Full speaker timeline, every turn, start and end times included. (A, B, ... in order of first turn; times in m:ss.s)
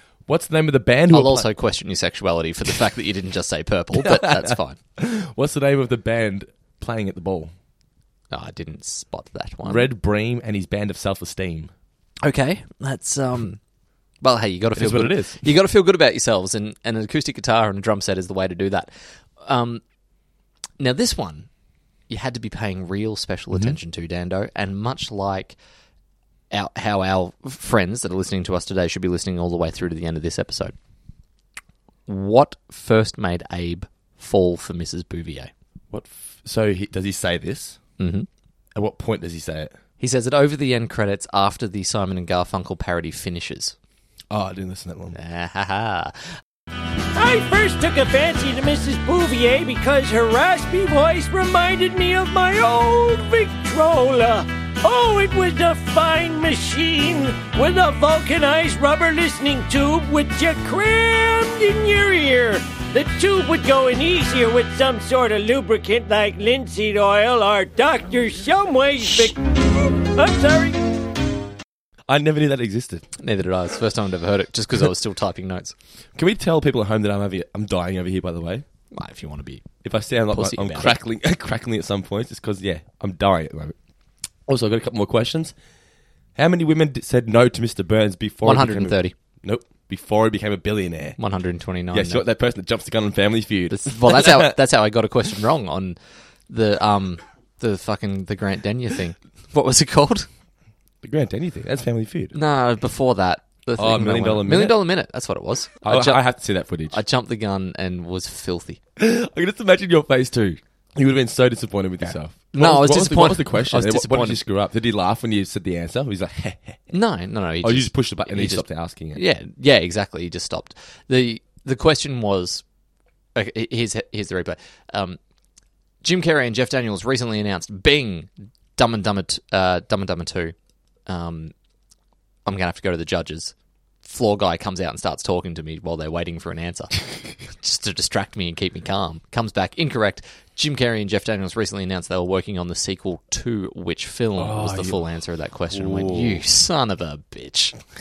0:00.3-0:01.5 A
0:01.1-0:04.8 B
0:03.9-0:07.5 A
0:08.3-0:09.9 B
0:09.6-0:11.7 A
0:12.2-0:13.6 B
0:14.2-0:19.8 B
0:14.7-0:15.4 A
0:20.8-0:21.5 B
0:22.1-0:25.6 B
0:26.5-0:30.7 B
0:32.0-0:35.5 B
0:35.9-0:37.8 A
0:38.0-0:38.3 B
0:38.7-0:39.8 A
0:40.0-0:43.8 B
0:44.3-0:45.2 A
0:45.1-0:46.3 B
0:47.1-1:10.8 C
1:12.1-1:13.0 A
1:13.2-1:15.7 B
1:16.2-1:18.6 A
1:18.9-1:19.6 B
1:19.8-1:23.7 A
1:20.3-1:21.0 B
1:24.5-1:25.5 A
1:26.4-1:31.2 A
1:28.4-1:29.1 B
1:31.2-1:32.2 B
1:31.9-1:34.6 A
1:33.7-1:36.0 B
1:36.5-1:40.3 B
1:41.0-1:42.4 A
1:42.3-1:46.2 B
1:43.8-1:44.8 A
1:45.8-1:47.0 A
1:46.9-1:48.8 B
1:49.0-1:56.9 A
1:52.5-1:54.4 B
1:56.9-2:02.6 B
1:57.6-1:59.2 A
2:03.3-2:05.2 B
2:06.0-2:10.5 B
2:11.1-2:11.5 B
2:12.4-2:13.5 B
2:14.0-2:27.8 B
2:24.4-2:25.0 A
2:25.7-2:26.4 A